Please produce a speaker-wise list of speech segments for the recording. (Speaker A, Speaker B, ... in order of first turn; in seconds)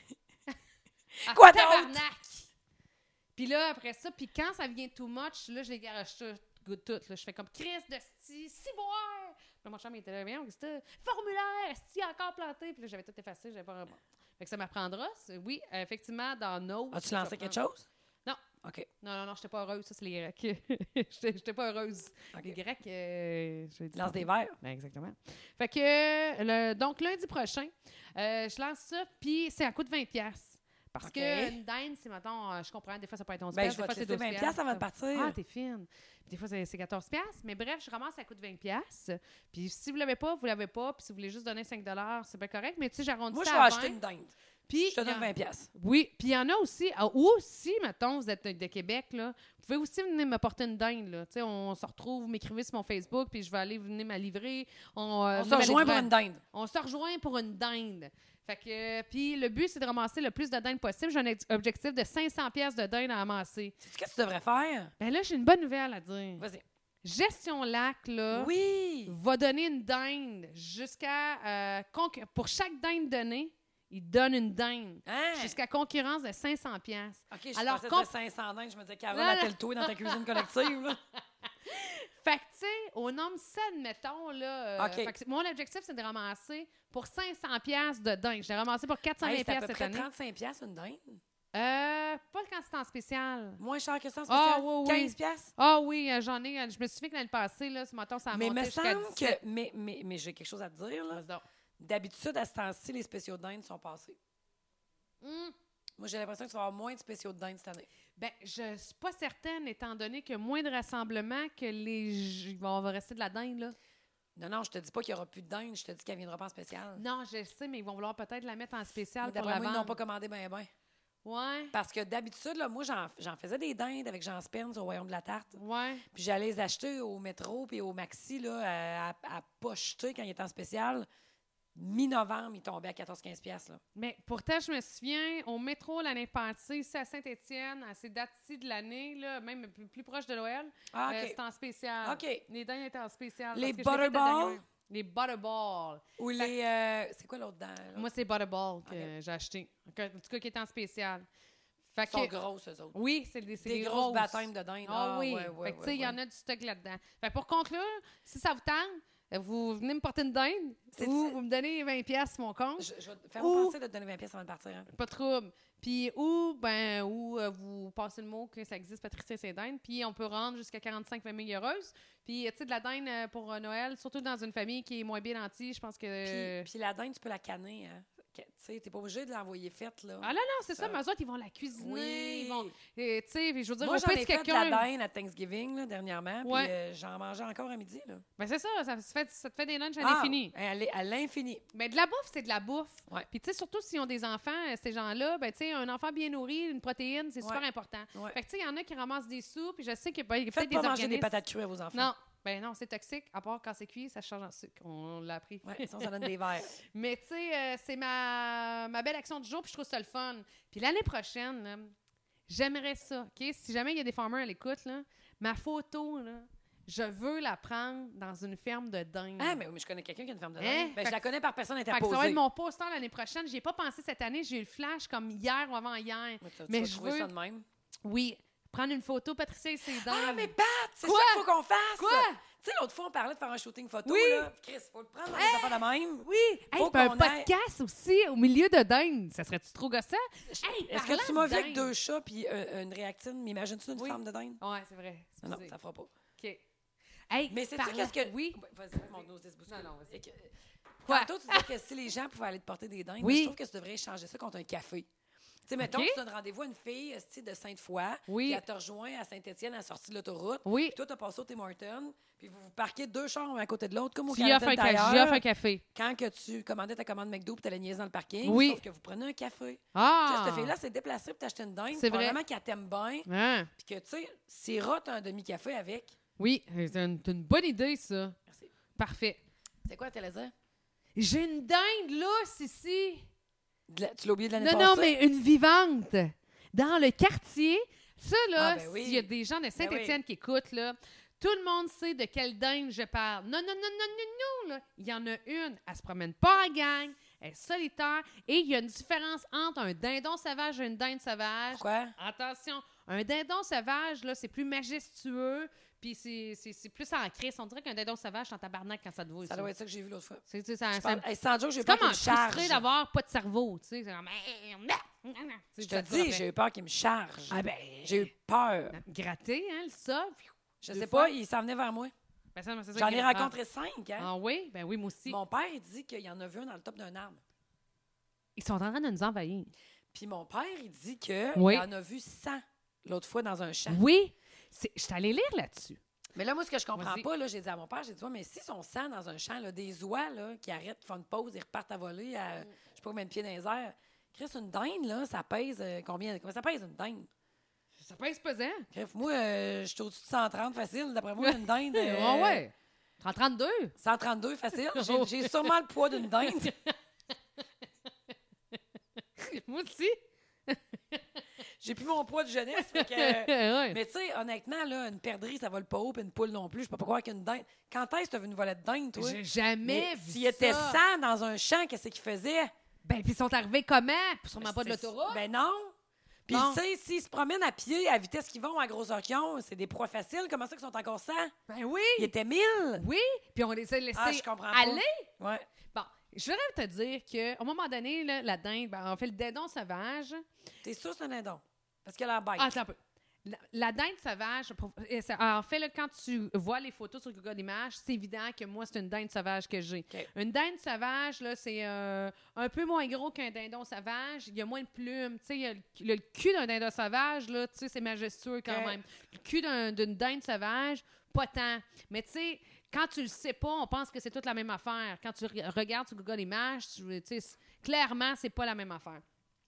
Speaker A: 1.2-2.0, 16.9-17.9, 18.6-18.9, 23.9-24.6, 31.0-31.6, 33.5-35.4, 43.3-44.3, 44.9-45.7, 55.3-56.4, 63.8-64.9, 66.4-66.6, 68.3-69.2, 75.1-75.6, 77.3-81.0, 84.8-85.1, 89.2-91.2, 93.6-95.5, 98.3-101.2, 101.8-104.2, 106.0-107.9, 114.4-117.0, 119.2-120.7, 121.7-125.6, 126.1-131.1, 131.8-133.8, 140.9-141.4, 142.0-142.4, 143.5-144.6, 146.2-148.1, 152.1-153.0, 153.6-156.2, 161.0-161.4, 162.8-164.9, 176.2-181.0, 181.8-182.7, 183.8-188.2, 190.0-191.6, 200.5-202.1, 205.6-206.7, 219.4-222.4, 226.4-227.7, 229.9-237.5, 240.5-244.6, 245.4-246.1, 247.5-250.5, 251.1-255.1, 255.7-276.2, 279.9-280.5, 283.9-285.1, 288.6-290.2, 301.7-302.1, 309.4-312.8, 315.8-319.0, 320.8-322.1, 322.9-324.3, 325.3-327.4, 330.1-334.0, 336.4-347.3, 348.9-352.6, 354.0-356.7, 361.8-372.7, 374.6-375.9, 376.5-381.5, 382.2-383.0, 384.1-385.7, 390.8-392.7, 408.7-409.0
Speaker B: 1.3-2.5, 3.4-17.6, 19.0-44.0, 44.7-63.8, 65.0-66.5, 67.0-68.5, 69.1-78.1, 79.1-80.8, 81.6-90.1, 91.5-93.6, 94.3-99.4, 101.1-101.4, 105.2-105.5, 108.2-113.8, 117.0-120.0, 121.2-121.7, 125.6-126.0, 133.9-146.6, 147.9-151.3, 151.9-152.3, 152.9-163.8, 164.9-176.7, 180.2-184.9, 186.4-186.7, 188.4-190.5, 191.7-201.3, 201.9-211.9, 212.5-219.6, 220.6-221.2, 221.9-227.3, 228.0-232.4, 234.1-234.5, 235.3-241.9, 243.9-245.8, 246.4-246.6, 247.3-248.6, 249.7-250.2, 251.1-251.7, 253.2-253.6, 255.8-256.2, 258.3-258.6, 260.6-261.0, 264.3-265.8, 268.4-268.8, 269.9-270.7, 271.9-272.4, 273.3-273.7, 276.4-278.4, 278.9-279.4, 281.1-283.3, 284.6-309.7, 310.5-311.3, 311.8-316.5, 317.5-318.3, 318.9-321.4, 322.6-323.5, 324.2-325.4, 328.6-329.7, 331.6-331.9, 333.9-336.0, 336.9-337.3, 348.0-348.9, 351.4-353.9, 354.8-357.0, 359.4-361.4, 362.8-364.0, 369.2-371.0, 373.1-375.4, 376.5-376.8, 381.7-382.3, 383.0-385.3, 385.9-390.4, 392.6-419.2